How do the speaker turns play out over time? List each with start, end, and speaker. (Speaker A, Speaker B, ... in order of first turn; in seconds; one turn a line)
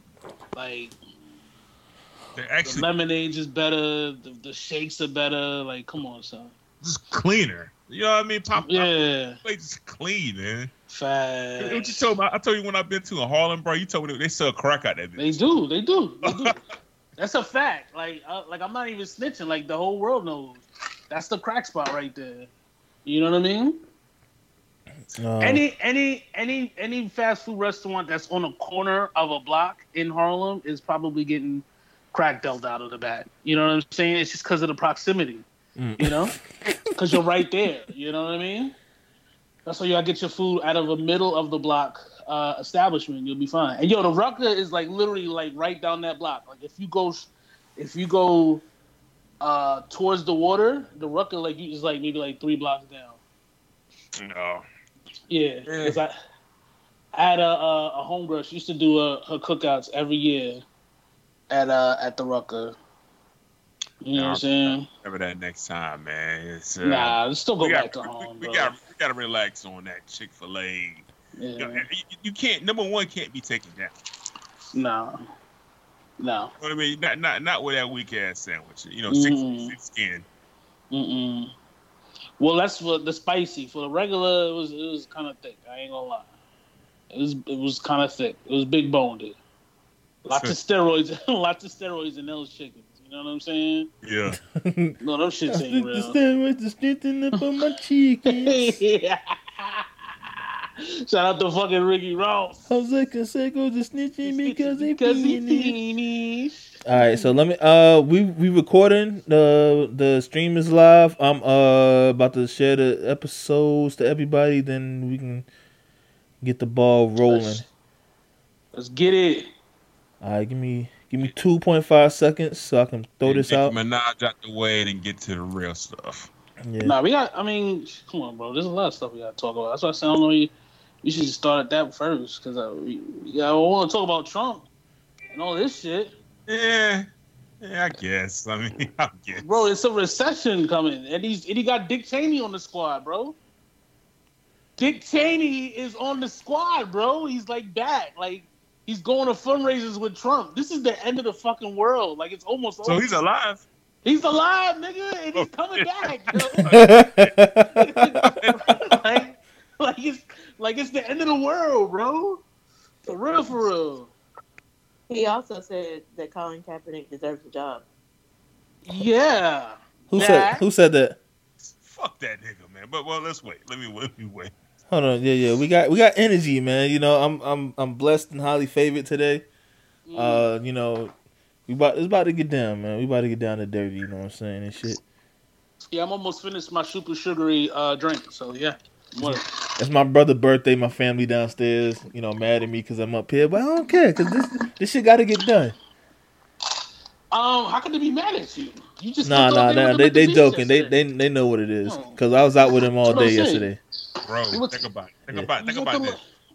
Speaker A: 0.5-0.9
Speaker B: 2.3-2.9
Speaker A: 2.6-6.5
Speaker B: 6.8-8.9
Speaker A: 8.5-9.4
Speaker B: 9.4-10.7
Speaker A: 10.9-12.1
Speaker B: 11.6-15.4
Speaker A: 15.2-16.6
Speaker B: 16.2-16.5
Speaker A: 17.2-22.5
Speaker A: 23.0-23.8
Speaker C: 25.1-25.6
Speaker A: 25.4-35.5
Speaker C: 35.8-36.4
Speaker A: 36.0-36.3
Speaker A: 37.0-38.7
Speaker A: 39.6-48.6
Speaker A: 49.4-53.2
Speaker B: 54.1-54.6
Speaker A: 55.3-56.1
Speaker B: 55.6-56.0
Speaker A: 57.1-60.6
Speaker A: 61.5-62.8
Speaker A: 64.0-64.9
Speaker B: 64.1-74.0
Speaker A: 66.8-68.8
Speaker A: 71.3-71.8
Speaker A: 74.7-75.2
Speaker A: 76.2-76.5
Speaker B: 76.6-80.2
Speaker A: 79.1-79.7
Speaker A: 80.9-81.5
Speaker A: 82.4-86.3
Speaker A: 87.1-89.4
Speaker A: 90.2-93.9
Speaker B: 90.3-90.5
Speaker B: 94.0-94.4
Speaker C: 94.3-95.0
Speaker A: 95.0-96.2
Speaker C: 95.5-98.8
Speaker A: 98.3-100.4
Speaker A: 101.1-102.6
Speaker C: 102.7-105.8
Speaker A: 104.2-107.3
Speaker C: 106.8-115.5
Speaker C: 116.4-117.6
Speaker A: 117.2-117.7
Speaker A: 118.7-119.5
Speaker C: 120.2-123.7
Speaker B: 123.2-126.3
Speaker C: 126.6-126.9
Speaker A: 126.8-134.7
Speaker A: 135.3-136.1
Speaker B: 136.5-137.1
Speaker B: 137.6-139.7
Speaker A: 139.4-143.3
Speaker A: 144.8-153.1
Speaker B: 152.8-153.6
Speaker A: 154.0-156.8
Speaker B: 155.3-157.3
Speaker C: 156.7-158.3
Speaker A: 157.8-162.4
Speaker B: 158.2-158.7
Speaker A: 163.1-164.1
Speaker D: 165.1-167.8
Speaker A: 168.8-170.4
Speaker C: 170.1-171.2
Speaker D: 170.1-170.6
Speaker B: 171.6-174.5
Speaker C: 174.9-179.4
Speaker A: 180.1-180.5
Speaker C: 180.1-181.1
Speaker C: 181.7-185.0
Speaker A: 185.9-189.4
Speaker C: 189.2-195.7
Speaker A: 197.3-200.9
Speaker C: 199.2-203.8
Speaker A: 201.8-202.2
Speaker A: 203.0-203.7
Speaker B: 204.2-206.2
Speaker A: 204.5-204.8
Speaker A: 205.6-206.2